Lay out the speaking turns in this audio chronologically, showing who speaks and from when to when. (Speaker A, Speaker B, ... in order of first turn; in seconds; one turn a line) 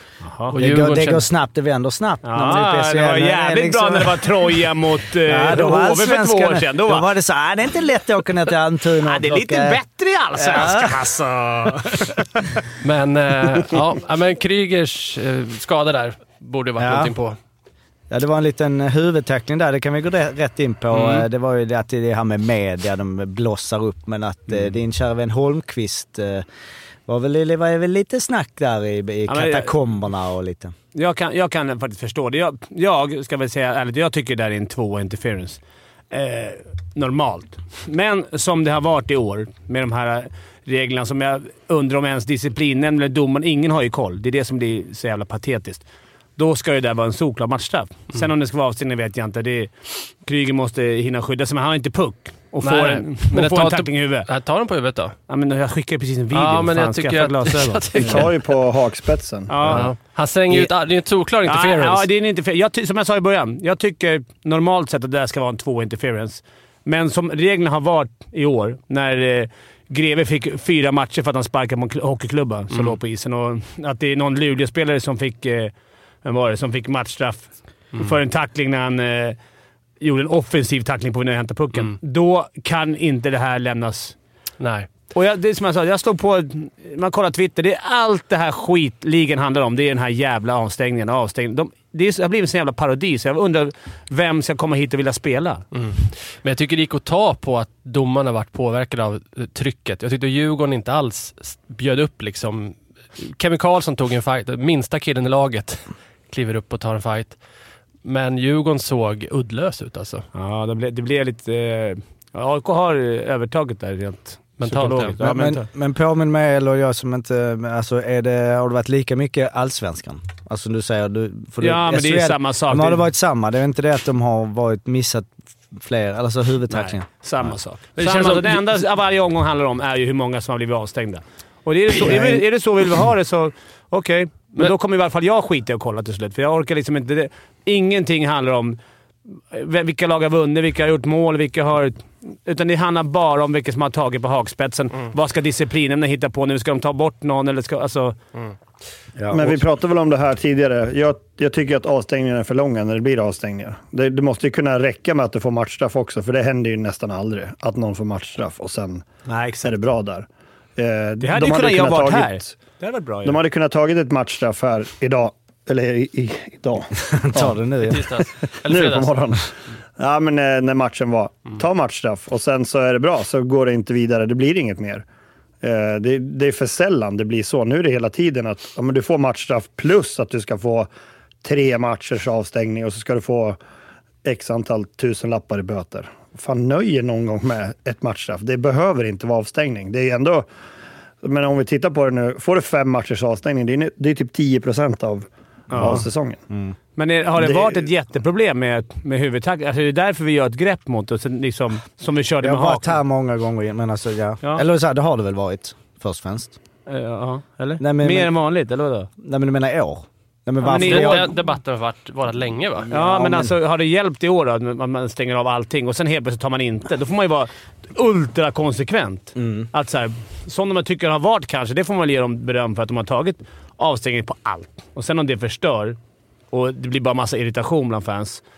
Speaker A: 0.2-0.5
Speaker B: 0.5-1.3
Speaker C: 0.6-4.4
Speaker A: 2.2-7.1
Speaker C: 5.2-9.8
Speaker A: 9.0-12.5
Speaker C: 10.3-11.0
Speaker B: 12.8-17.4
Speaker C: 16.8-17.1
Speaker C: 18.1-26.4
Speaker B: 20.9-21.2
Speaker C: 27.1-30.7
Speaker A: 29.3-29.7
Speaker A: 30.9-35.6
Speaker A: 36.1-45.8
Speaker A: 46.4-54.3
Speaker B: 52.6-55.1
Speaker A: 55.3-58.2
Speaker B: 56.3-58.4
Speaker D: 58.0-59.6
Speaker A: 59.5-59.9
Speaker B: 59.6-62.0
Speaker A: 61.4-75.7
Speaker A: 76.2-79.4
Speaker A: 80.0-84.1
Speaker B: 84.6-84.9
Speaker A: 85.1-95.6
Speaker B: 95.7-107.4
Speaker B: 108.0-110.2
Speaker A: 110.3-115.7
Speaker B: 114.6-115.1
Speaker C: 115.2-127.5
Speaker A: 121.6-123.0
Speaker A: 126.7-138.8
Speaker B: 128.0-128.6
Speaker C: 132.0-132.4
Speaker A: 139.3-148.2
Speaker C: 149.2-149.6
Speaker D: 149.3-159.1
Speaker A: 159.3-159.8
Speaker D: 159.6-162.5
Speaker A: 161.2-163.4
Speaker D: 163.2-167.6
Speaker C: 167.0-168.3
Speaker B: 167.8-169.2
Speaker D: 168.7-169.4
Speaker D: 170.0-175.1
Speaker D: 175.6-180.9
Speaker D: 181.4-183.6
Speaker D: 184.2-190.5
Speaker D: 191.2-196.4
Speaker A: 195.7-196.0
Speaker C: 195.7-196.7
Speaker A: 196.9-202.9
Speaker D: 197.4-197.9
Speaker C: 202.4-206.6
Speaker A: 206.9-209.1
Speaker C: 207.8-208.3
Speaker C: 209.2-211.3
Speaker A: 210.6-211.2
Speaker B: 210.8-212.9
Speaker C: 212.8-213.5
Speaker A: 212.9-226.0
Speaker C: 219.3-219.7
Speaker A: 226.5-228.4